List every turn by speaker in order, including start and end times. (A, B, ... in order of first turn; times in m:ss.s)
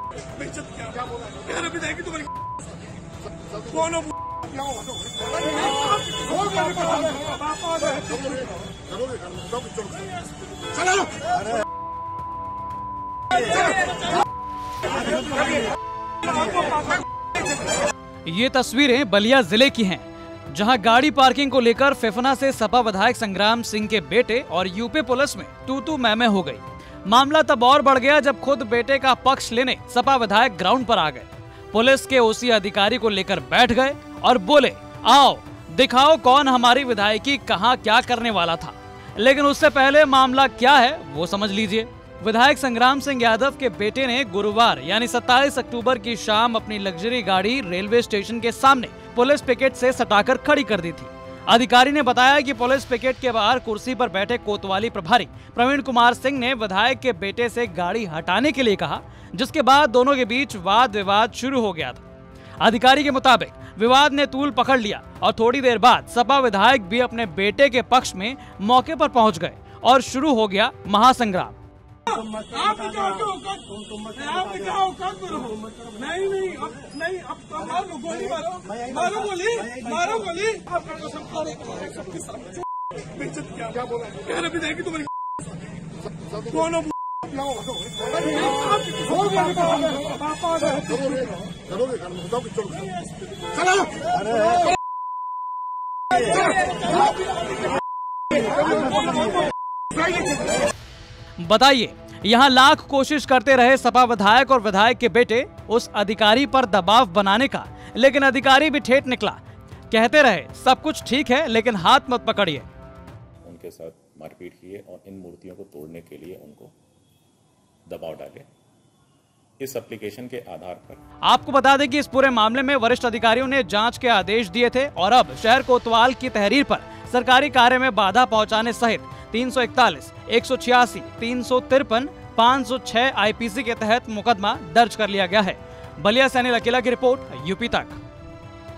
0:00.4-0:02.2 A
0:05.7-0:08.2 A
0:18.2-1:02.0 B
1:02.6-1:11.5 B
1:12.1-1:22.5 A
1:23.2-1:25.0 A
1:28.3-1:31.0 A
1:38.7-1:39.3 A
1:41.4-1:52.7 B
1:53.4-1:56.7 C
1:57.9-1:58.5 C
1:59.6-2:01.0 C
2:01.2-2:18.0 B